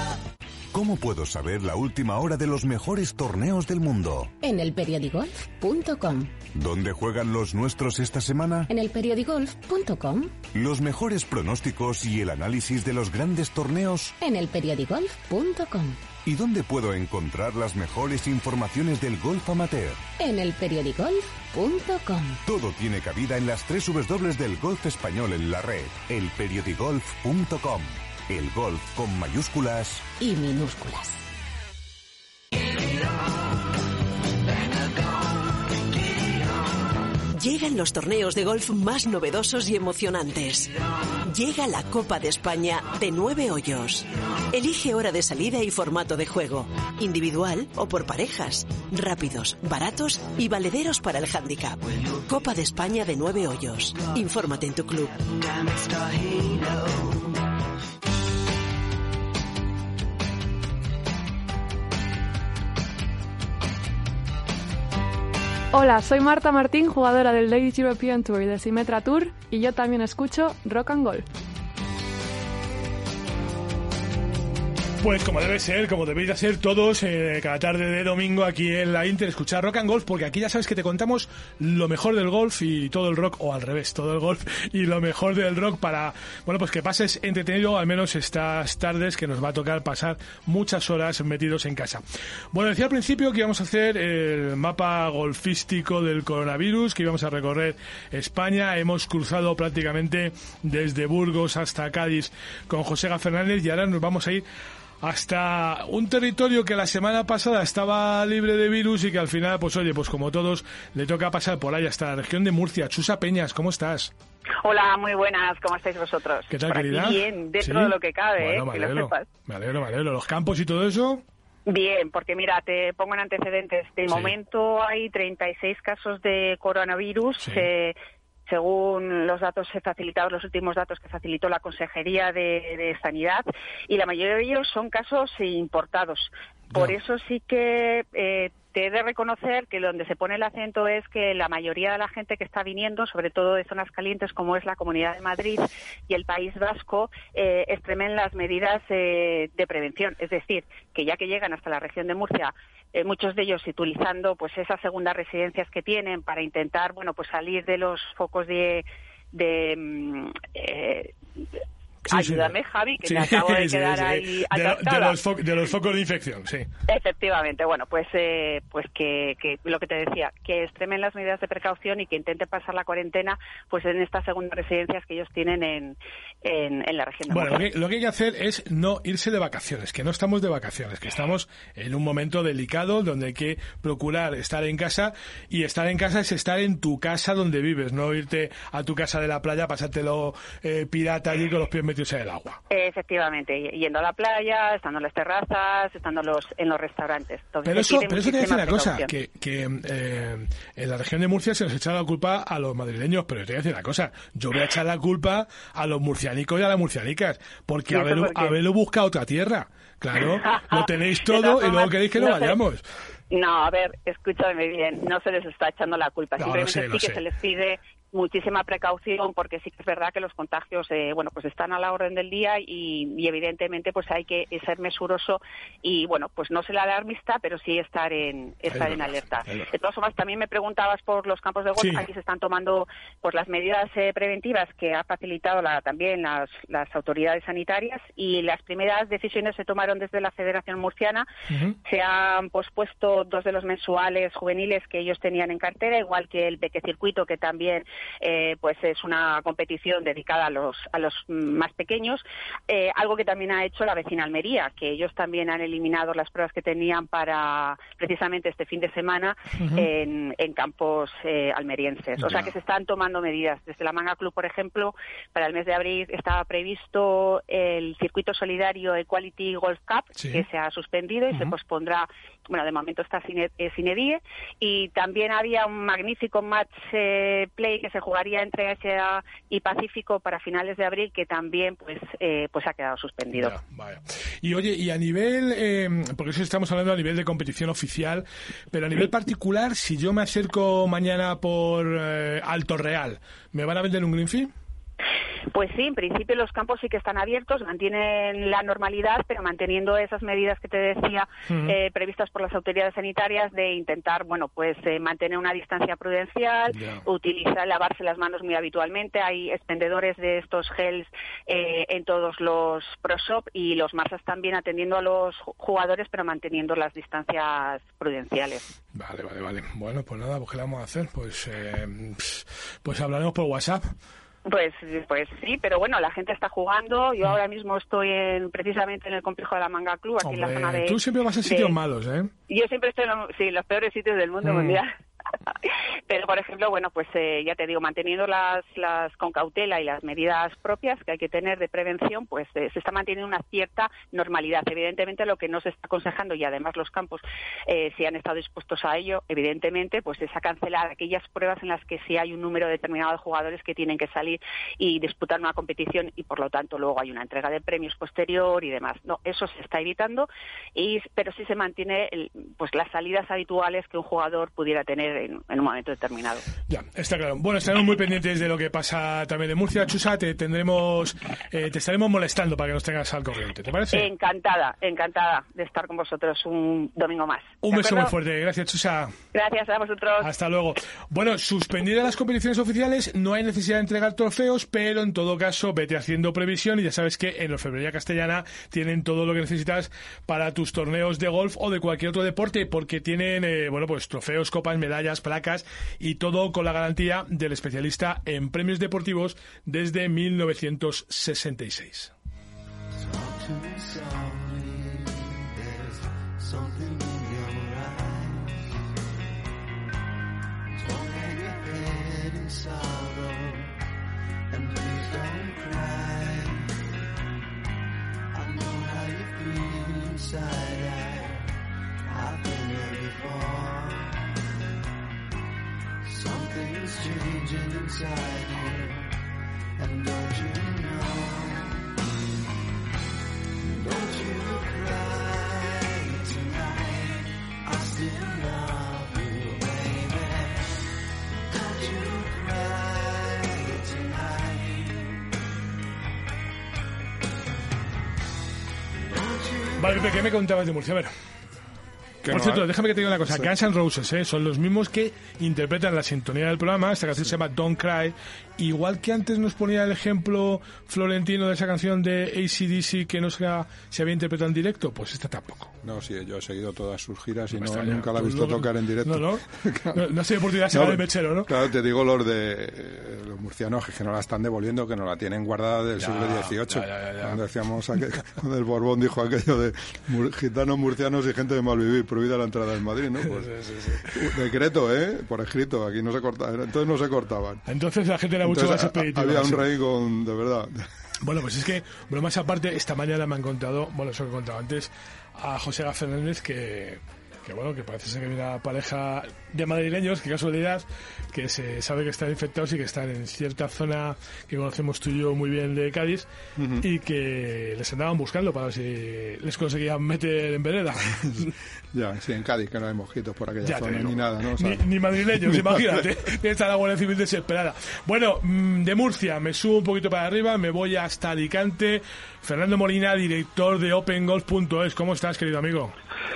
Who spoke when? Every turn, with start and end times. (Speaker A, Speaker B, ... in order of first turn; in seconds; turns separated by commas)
Speaker A: 0.7-4.3, Speaker B: 4.4-6.4, Speaker A: 6.5-8.7, Speaker B: 8.7-10.3, Speaker A: 10.5-14.1, Speaker B: 14.2-16.0, Speaker A: 16.2-20.0, Speaker B: 20.2-22.4, Speaker A: 22.5-30.1, Speaker B: 30.2-31.2, Speaker C: 37.3-40.7, Speaker C: 41.3-55.2, Speaker D: 51.9-52.3, Speaker D: 55.2-57.4, Speaker E: 65.7-71.3, Speaker F: 75.0-104.4, Speaker F: 105.0-114.1, Speaker G: 114.6-119.2, Speaker F: 116.5-121.2, Speaker G: 121.7-127.9, Speaker F: 124.1-124.3, Speaker F: 127.4-127.7, Speaker G: 128.5-161.1, Speaker F: 162.1-166.7, Speaker G: 162.1-165.2, Speaker G: 166.9-177.7, Speaker F: 177.3-192.6, Speaker G: 192.7-199.1, Speaker F: 197.7-212.8, Speaker G: 207.9-208.6, Speaker G: 210.2-212.6, Speaker G: 213.3-241.3, Speaker F: 216.4-217.2, Speaker F: 228.7-229.7, Speaker F: 231.8-232.1, Speaker F: 241.5-241.8, Speaker G: 241.8-283.6, Speaker F: 259.6-259.9, Speaker F: 262.2-262.5, Speaker F: 270.2-270.4, Speaker F: 283.3-294.5, Speaker G: 295.5-318.6, Speaker F: 301.5-301.8, Speaker F: 306.7-307.0, Speaker F: 318.9-323.9, Speaker G: 324.5-331.8, Speaker F: 330.2-332.3, Speaker G: 332.5-334.9, Speaker F: 334.4-334.8, Speaker G: 336.1-366.4, Speaker F: 366.7-374.1, Speaker G: 373.9-378.1, Speaker F: 377.6-379.1, Speaker G: 379.3-380.3, Speaker F: 380.2-402.1, Speaker D: 403.1-408.6, Speaker D: 410.8-413.8, Speaker D: 414.5-416.8, Speaker D: 418.3-421.5, Speaker D: 422.1-424.4, Speaker D: 426.1-429.1, Speaker D: 429.8-431.9, Speaker D: 433.8-440.7, Speaker D: 441.5-445.2, Speaker D: 449.1-449.9, Speaker F: 449.8-451.1, Speaker H: 452.2-452.7, Speaker F: 452.3-465.7, Speaker H: 465.8-470.1, Speaker F: 467.6-471.5, Speaker H: 470.7-487.6, Speaker F: 476.0-477.4, Speaker F: 483.4-484.1, Speaker F: 487.7-489.6, Speaker H: 488.4-490.9, Speaker F: 491.2-506.3, Speaker H: 506.6-506.9, Speaker F: 506.8-511.5, Speaker H: 511.2-516.1, Speaker F: 513.6-525.9